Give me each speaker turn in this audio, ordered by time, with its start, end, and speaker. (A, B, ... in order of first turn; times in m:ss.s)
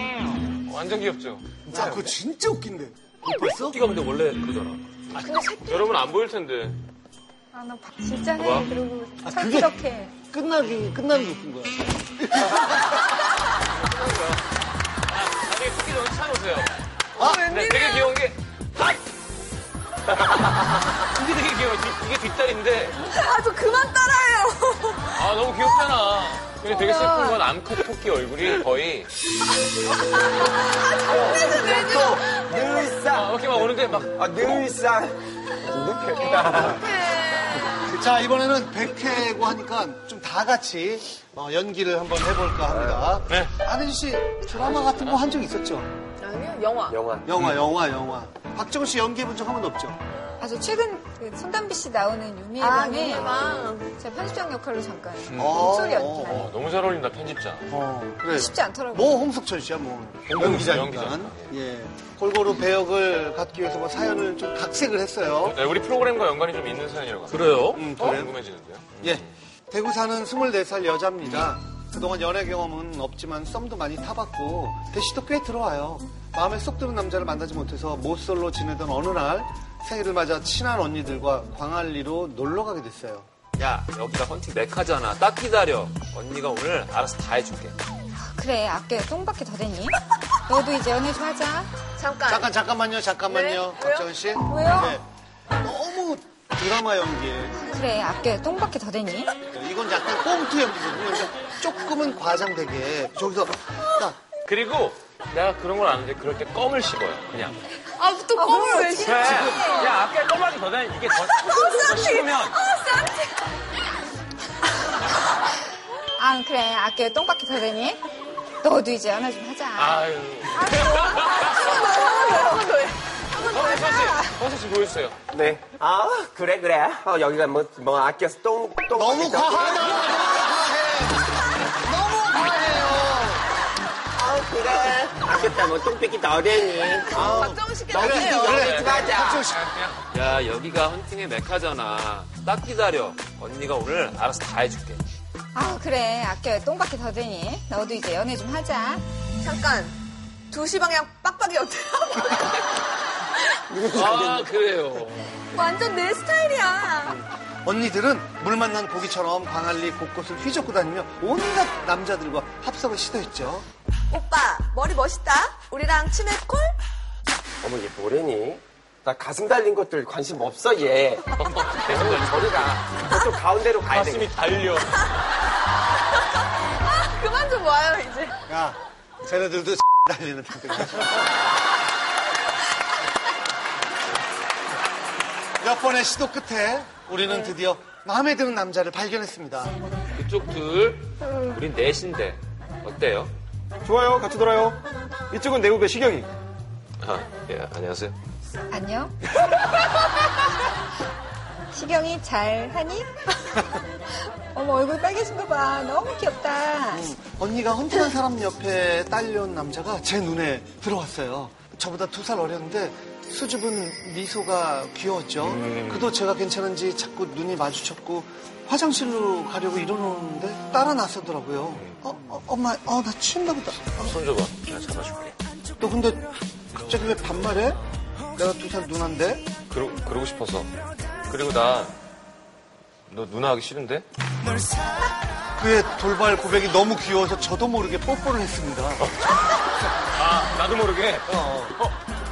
0:00.6-0:01.6 A
0:01.7-0:03.8 B
0:03.5-0:04.8 C
0:05.1-0:06.8 A
0:05.2-0:06.1 D
0:07.5-0:10.2 E
0:09.2-0:13.0 B
0:13.9-0:14.3 A
0:15.1-0:16.8 A
0:17.2-0:18.1 D
0:17.4-0:19.0 A
0:21.0-0:23.1 A
0:23.1-0:25.3 D
0:25.1-0:29.1 A
0:26.7-0:27.4 E
0:29.7-0:32.9 D
0:31.2-0:36.8 F
0:33.0-0:34.5 A
0:35.9-0:37.8 D
0:37.7-0:45.9 B
0:42.7-0:43.1 F
0:43.2-0:43.5 A
0:44.5-0:45.2 A
0:46.2-0:47.0 D
0:46.9-0:47.3 F
0:47.2-0:50.0 B
0:50.4-0:56.2 E
0:52.6-0:53.9 D
0:55.3-0:56.4 B
0:55.5-0:56.5 D
0:56.2-0:57.7 A
0:57.7-1:05.6 B
0:58.3-0:59.2 E
1:00.3-1:01.5 A
1:00.4-1:00.7 C
1:05.4-1:09.2 A
1:07.3-1:07.9 C
1:07.7-1:08.4 B
1:09.0-1:23.3 B
1:23.6-1:27.8 C
1:28.2-1:31.9 E
1:32.0-1:32.5 D
1:32.3-1:35.0 B
1:33.3-1:34.1 D
1:34.4-1:35.0 E
1:35.6-1:37.6 B
1:37.6-1:39.3 E
1:39.5-1:44.2 B
1:44.4-1:47.6 A
1:47.9-1:50.0 D
1:48.3-1:49.9 E
1:49.0-1:52.6 A
1:51.3-1:53.5 D
1:56.2-1:58.0 E
1:58.6-2:02.7 E
1:59.7-2:01.8 A
2:01.2-2:04.1 D
2:03.5-2:05.2 A
2:03.6-2:04.4 E
2:05.3-2:09.9 F
2:08.9-2:13.5 B
2:14.1-2:19.5 F
2:17.1-2:19.2 D
2:17.1-2:19.6 B
2:18.5-2:20.0 A
2:20.1-2:25.0 C
2:25.5-2:29.0 E
2:29.4-2:30.0 D
2:30.5-2:33.8 D
2:33.8-2:34.4 F
2:33.8-2:35.3 C
2:35.5-2:37.2 D
2:37.6-2:43.6 B
2:44.1-2:46.8 D
2:47.6-2:54.3 F
2:51.3-2:52.8 A
2:53.8-2:55.1 A
2:56.8-2:58.4 D
2:58.5-3:01.3 B
3:05.6-3:09.8 B
3:10.1-3:13.3 C
3:13.8-3:14.8 F
3:15.3-3:16.3 F
3:17.0-3:18.1 A
3:18.7-3:19.1 E
3:21.7-3:27.1 E
3:26.9-3:44.2 B
3:35.4-3:36.0 C
3:41.7-3:42.0 A
3:43.8-3:45.3 A
3:45.8-3:47.8 B
3:48.3-3:49.5 B
3:49.7-3:50.7 A
3:51.3-3:52.0 A
3:53.1-3:54.0 A
3:55.6-3:59.1 B
3:59.0-4:01.9 A
4:01.2-4:01.8 B